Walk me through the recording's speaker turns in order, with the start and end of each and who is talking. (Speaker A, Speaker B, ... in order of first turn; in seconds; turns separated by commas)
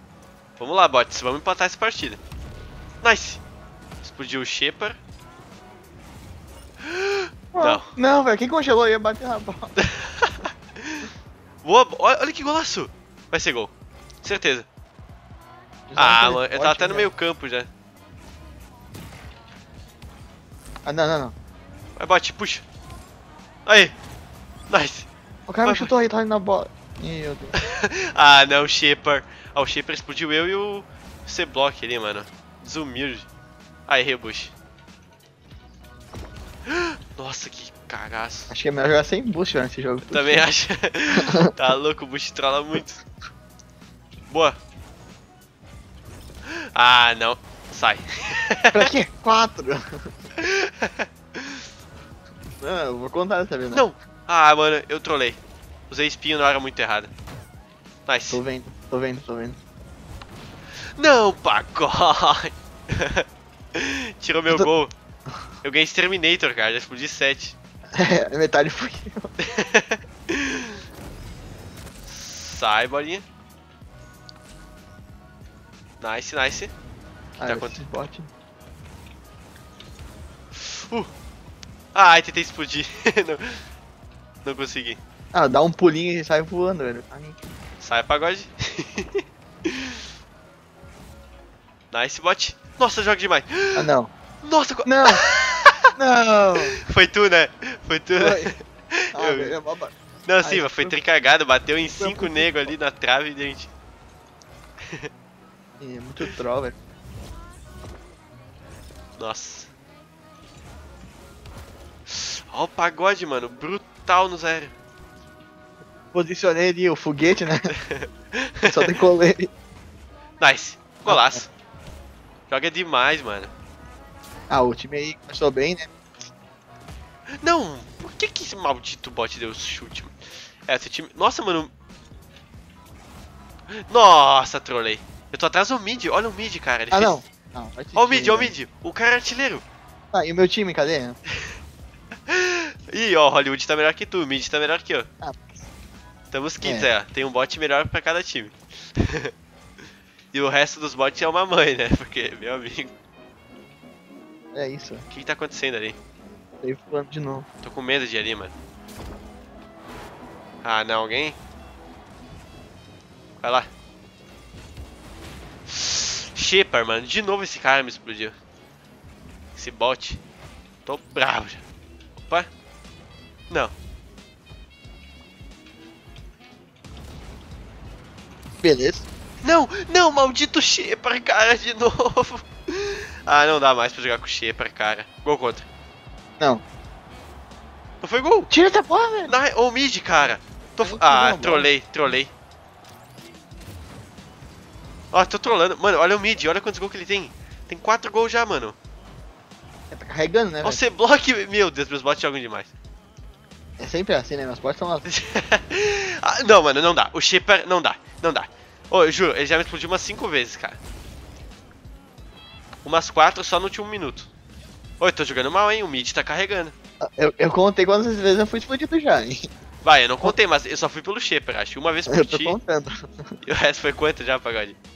Speaker A: 0.6-2.2, Speaker A: 3.0-3.4, Speaker A: 4.0-5.0, Speaker A: 6.8-7.9, Speaker B: 7.5-9.7, Speaker A: 9.8-11.1, Speaker A: 11.6-13.7, Speaker A: 14.2-14.7, Speaker B: 15.9-17.1, Speaker A: 16.0-17.7, Speaker B: 20.9-21.3, Speaker A: 22.0-22.6, Speaker A: 23.7-23.9, Speaker A: 24.7-25.1, Speaker B: 25.5-27.6, Speaker A: 25.6-25.9, Speaker A: 27.6-33.3, Speaker A: 33.9-34.5, Speaker A: 36.7-38.5, Speaker B: 38.5-40.4, Speaker A: 40.1-43.0, Speaker A: 44.3-44.6, Speaker A: 46.5-48.9, Speaker B: 48.7-50.1, Speaker A: 50.4-51.6, Speaker B: 52.6-53.9, Speaker A: 53.7-55.4, Speaker A: 55.9-57.1, Speaker A: 58.1-58.4, Speaker B: 58.3-59.6, Speaker A: 61.0-64.9, Speaker A: 65.6-67.6, Speaker B: 67.9-69.3, Speaker A: 69.4-70.8, Speaker A: 72.1-73.2, Speaker A: 76.0-76.7, Speaker B: 77.4-78.3, Speaker A: 77.4-77.9, Speaker A: 80.6-81.1, Speaker A: 81.9-83.6, Speaker A: 84.4-85.0, Speaker B: 85.3-87.4, Speaker A: 87.8-89.9, Speaker A: 91.9-93.9, Speaker B: 93.8-94.1, Speaker A: 94.4-95.8, Speaker B: 94.8-95.2, Speaker B: 96.0-96.8, Speaker A: 96.8-99.5, Speaker B: 98.2-98.5, Speaker B: 99.1-101.0, Speaker A: 100.2-103.7, Speaker B: 101.9-102.7, Speaker B: 105.8-106.8, Speaker A: 109.2-109.7, Speaker A: 112.1-114.7, Speaker B: 116.1-117.7, Speaker A: 117.8-118.9, Speaker B: 118.6-119.5, Speaker A: 120.4-121.5, Speaker B: 121.1-121.4, Speaker A: 122.5-123.5, Speaker B: 124.5-125.9, Speaker A: 127.4-130.1, Speaker A: 130.7-131.7, Speaker A: 133.8-137.2, Speaker B: 136.9-138.6, Speaker A: 137.9-139.6, Speaker B: 140.1-141.2, Speaker A: 142.3-145.1, Speaker B: 145.2-145.6, Speaker A: 146.3-149.3, Speaker B: 146.6-146.9, Speaker A: 150.3-152.9, Speaker B: 154.5-155.1, Speaker A: 155.1-156.0, Speaker B: 156.6-157.5, Speaker A: 157.6-158.5, Speaker A: 160.6-161.4, Speaker A: 163.4-163.7, Speaker A: 165.7-168.3, Speaker A: 169.6-170.2, Speaker A: 170.9-171.6, Speaker A: 172.2-172.5, Speaker B: 178.6-179.1, Speaker A: 179.4-185.7, Speaker A: 188.0-188.5, Speaker B: 188.5-189.3, Speaker A: 189.3-192.3, Speaker B: 190.8-191.7, Speaker A: 195.1-198.8, Speaker B: 199.9-200.8, Speaker A: 200.6-202.7, Speaker B: 203.8-205.1, Speaker A: 205.1-210.8, Speaker A: 212.8-214.3, Speaker A: 215.0-216.7, Speaker B: 217.0-219.5, Speaker A: 219.8-222.6, Speaker B: 222.1-223.4, Speaker A: 223.4-224.8